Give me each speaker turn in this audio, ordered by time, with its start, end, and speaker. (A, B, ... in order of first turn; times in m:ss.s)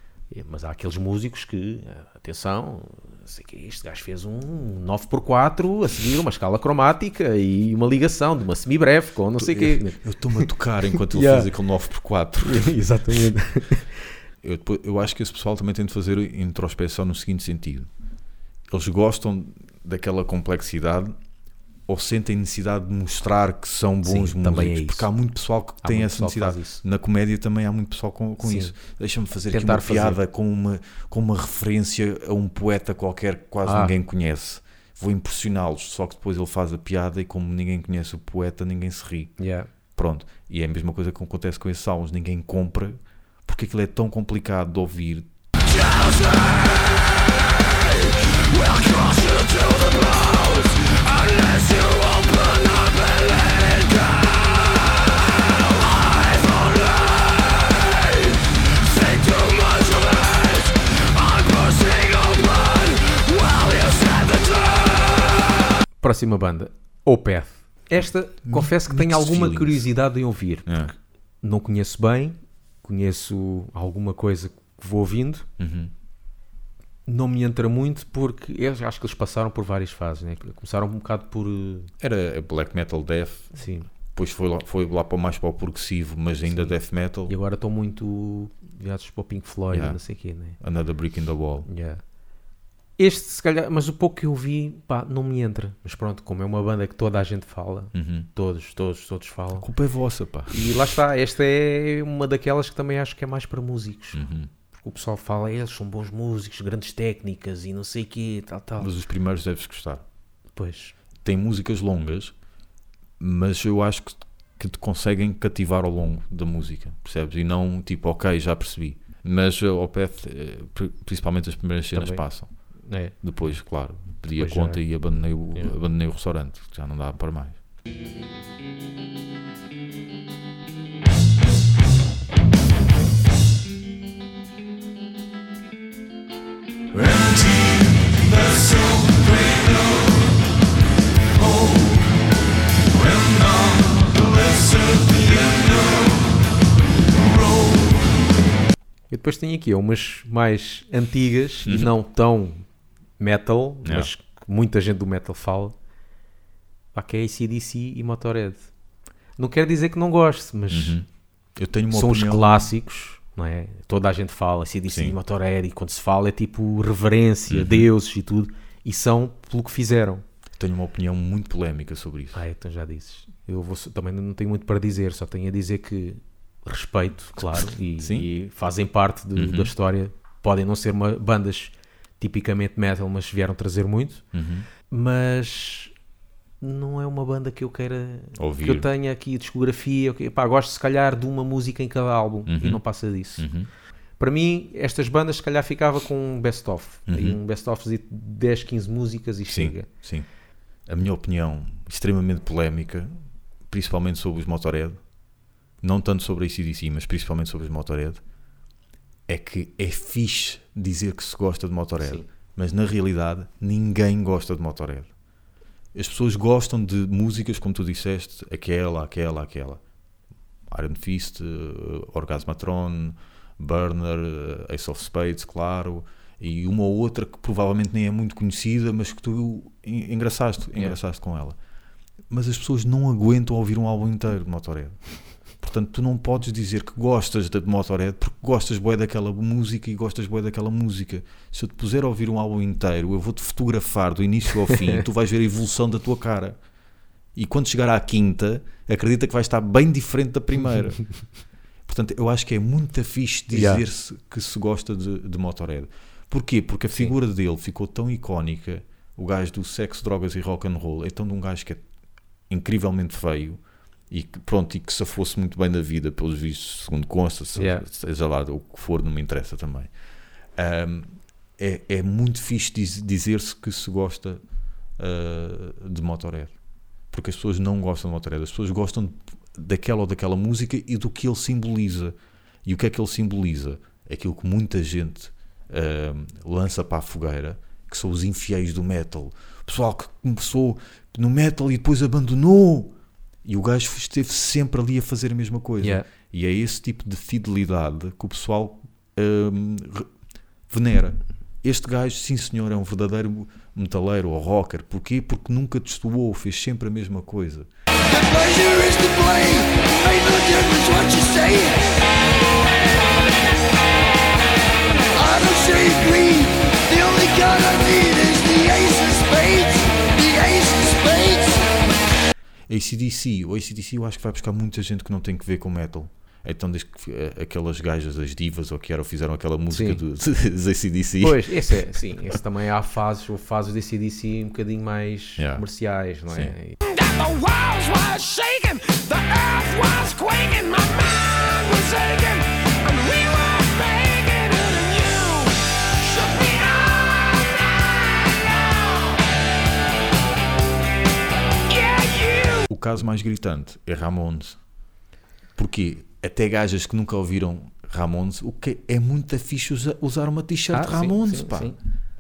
0:00.3-0:11.5 A
0:09.4-0:12.8 B
0:12.4-0:14.1 A
0:14.4-0:17.9 B
0:18.7-0:21.2 B
0:21.9-0:39.3 B
0:24.0-0:25.1 A
0:25.8-0:26.8 A
0:28.4-0:28.7 A
0:29.5-0:30.2 A
0:33.6-0:33.9 A
0:39.4-0:39.7 A
0:40.0-0:45.3 B
0:48.6-0:54.4 C
0:56.3-0:58.2 C
0:58.9-1:04.8 C
1:06.0-1:10.8 A
1:08.4-1:09.8 B
1:10.6-1:10.9 B
1:11.4-1:15.4 A
1:15.6-1:15.9 B
1:17.1-1:21.9 A
1:22.0-1:23.6 B
1:23.5-1:23.9 A
1:24.1-1:27.3 B
1:26.5-1:26.8 A
1:27.3-1:30.6 A
1:29.7-1:30.0 B
1:30.6-1:31.7 B
1:31.6-1:32.0 A
1:33.0-1:39.7 A
1:37.9-1:38.3 B
1:39.6-1:40.8 B
1:40.5-1:44.2 A
1:44.1-1:44.5 B
1:44.8-1:48.9 A
1:48.8-1:50.0 B
1:50.6-1:50.9 A
1:51.2-1:52.3 B
1:53.2-2:02.5 B
2:01.9-2:02.2 A
2:02.8-2:03.1 A
2:03.2-2:07.6 B
2:04.4-2:05.7 A
2:23.2-2:23.8 B
2:24.2-2:25.1 C
2:29.1-2:32.6 A
2:31.6-2:31.9 B
2:33.2-2:35.8 A
2:33.8-2:34.1 B
2:36.9-2:38.7 A
2:39.4-2:41.0 A
2:40.7-2:41.0 B
2:41.6-2:42.7 B
2:41.9-2:50.2 A
2:44.9-2:45.2 B
2:47.5-2:47.9 B
2:50.6-2:52.4 B
2:52.3-3:04.2 A
2:58.0-2:58.3 B
2:59.3-2:59.7 B
3:04.3-3:04.7 B
3:04.9-3:05.9 A
3:06.6-3:13.5 A
3:08.4-3:08.9 B
3:12.5-3:12.8 B
3:13.4-3:13.7 B
3:14.2-3:19.9 A
3:17.1-3:17.4 B
3:19.5-3:20.2 B
3:20.9-3:23.1 B
3:23.7-3:25.0 B
3:25.8-3:28.2 B
3:29.3-3:35.1 B
3:32.0-3:32.2 A
3:35.9-3:39.8 B
3:40.7-3:51.5 B
3:52.3-3:55.0 B
3:55.6-4:06.6 B
4:04.7-4:05.0 A
4:07.4-4:11.0 B
4:11.8-4:21.8 B
4:13.5-4:13.8 A
4:22.5-4:29.9 B
4:27.6-4:27.8 A
4:30.6-4:34.4 B
4:35.0-4:36.5 B
4:37.1-4:42.1 B
4:42.6-4:52.9 B
4:53.4-5:00.1 B
4:55.8-4:56.1 A
5:00.7-5:07.7 B
5:08.1-5:12.0 C
5:15.1-5:21.8 C
5:22.7-5:31.8 B
5:29.7-5:30.0 A
5:31.2-5:36.9 A
5:35.4-5:35.6 B
5:36.3-5:36.5 B
5:36.9-5:47.8 C
5:51.7-5:52.6 C
5:52.6-5:54.6 B
5:55.6-6:01.8 B
6:00.7-6:01.8 A